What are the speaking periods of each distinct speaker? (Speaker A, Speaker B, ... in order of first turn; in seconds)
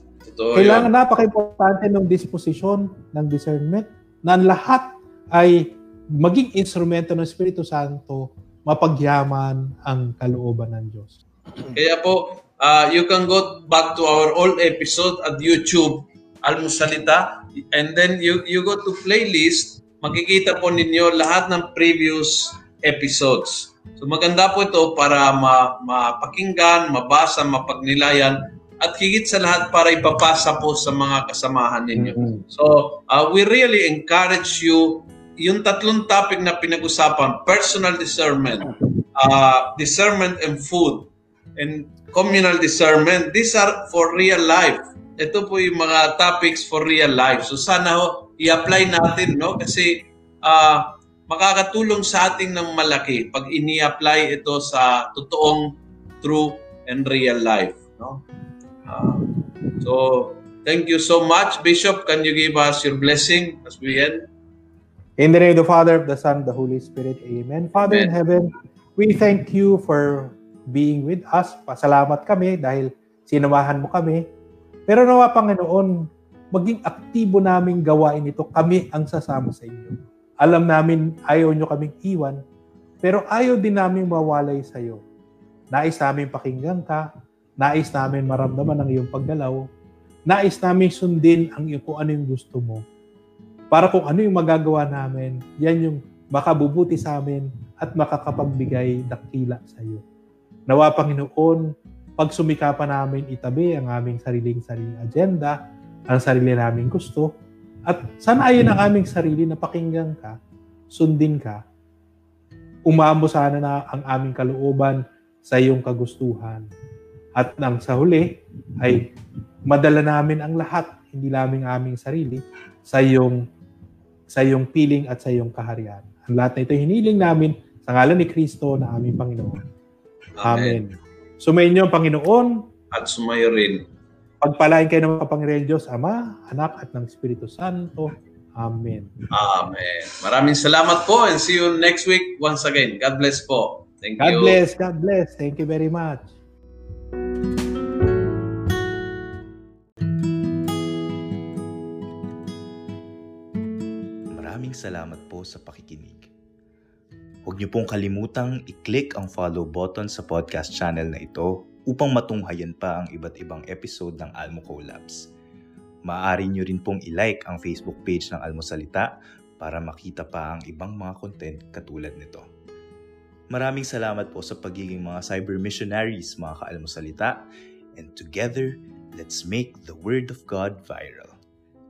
Speaker A: 0.2-0.9, 11.7-58.2, 58.9-59.2, 59.8-64.2, 67.8-68.2, 130.4-130.8, 132.9-133.8, 139.3-144.6
Speaker B: 0.6-11.8, 32.0-32.4, 65.2-74.2, 74.9-76.0, 76.5-82.4, 83.0-85.0, 85.7-87.0, 87.6-89.6, 90.3-92.8, 93.7-100.0, 100.7-101.7, 102.2-105.6, 106.1-107.3, 107.9-110.4, 110.9-111.6, 112.9-116.6, 117.4-119.1, 119.7-123.5, 124.3-129.6, 130.4-132.6, 134.4-139.1, 144.2-146.3
Speaker C: 154.3-156.3, 157.4-165.3, 166.1-172.5, 173.5-177.4, 178.0-181.4